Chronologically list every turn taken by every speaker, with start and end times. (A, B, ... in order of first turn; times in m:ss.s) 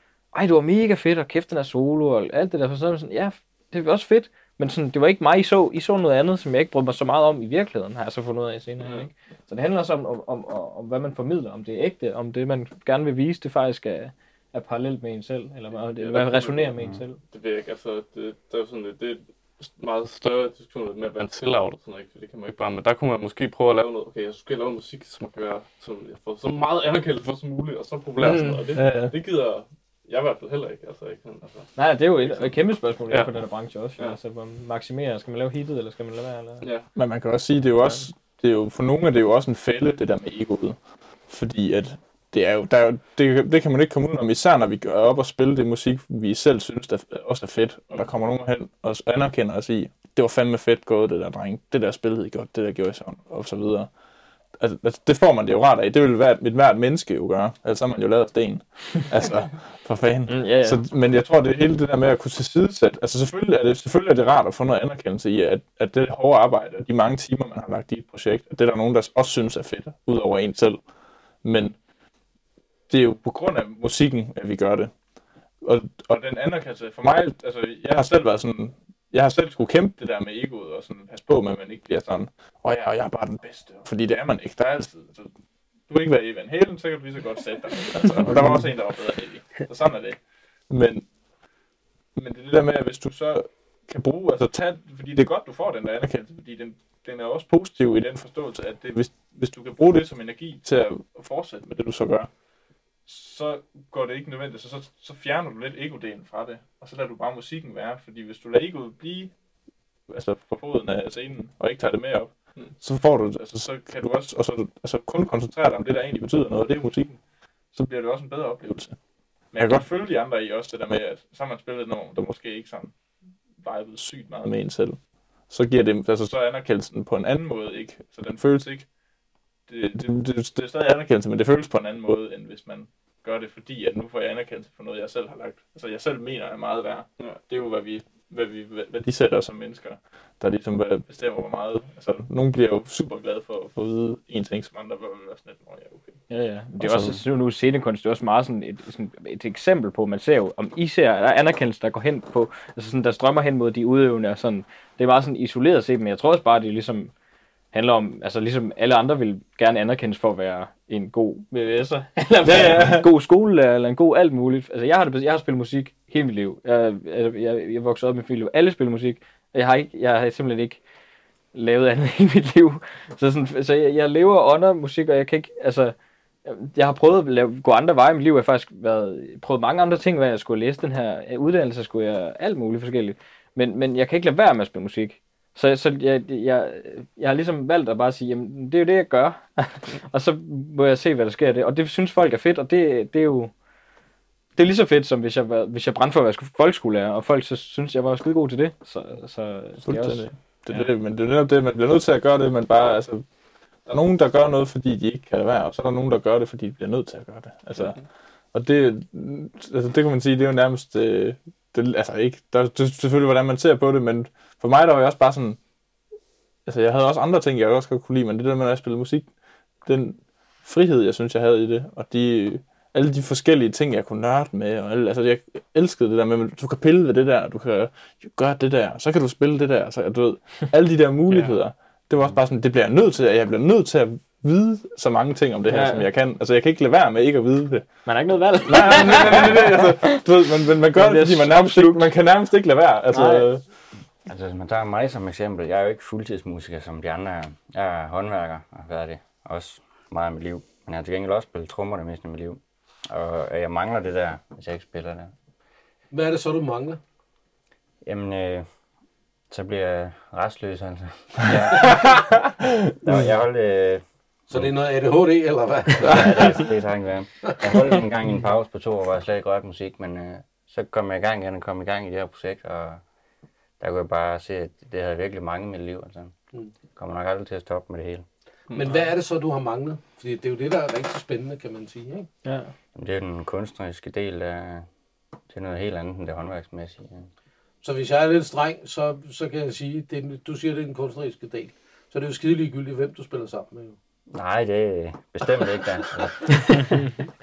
0:00.3-0:17.2 A
0:08.8-0:09.1 B
0:15.7-0:16.7 B
0:17.3-0:32.5 B
0:28.2-0:28.6 A
0:28.7-0:29.1 C
0:31.8-0:36.6 A
0:36.6-0:36.9 B
0:36.9-0:53.9 C
0:54.5-1:10.8 C
1:00.3-1:00.8 A
1:11.4-1:11.8 C
1:12.9-1:14.9 C
1:15.6-1:25.3 C
1:25.9-1:31.0 C
1:32.2-1:42.3 C
1:43.0-1:49.3 C
1:50.1-1:57.2 C
1:57.7-1:59.0 C
1:59.5-2:02.9 C
2:03.6-2:08.9 C
2:09.7-2:26.2 C
2:26.3-2:37.1 A
2:26.8-2:27.2 C
2:37.7-2:50.8 A
2:42.5-2:43.1 C
2:51.5-3:13.5 A
3:14.6-3:20.9 A
3:19.8-3:23.2 C
3:23.8-3:35.6 C
3:36.6-3:39.3 C
3:39.8-3:58.0 C
3:51.3-3:51.6 B
3:55.7-3:56.1 A
3:58.0-4:00.2 A
3:58.6-4:03.7 C
4:00.9-4:02.1 A
4:03.1-4:03.5 A
4:04.2-4:15.3 D
4:16.1-4:17.0 E
4:18.0-4:18.7 D
4:19.5-4:22.5 D
4:23.0-4:24.7 D
4:24.5-4:26.7 E
4:26.0-4:33.0 D
4:33.8-4:36.3 D
4:37.0-4:38.2 D
4:38.7-4:39.0 B
4:38.7-4:42.3 E
4:42.4-4:42.7 A
4:42.9-4:44.9 D
4:45.5-4:47.3 D
4:47.8-4:54.0 E
4:54.3-4:57.1 D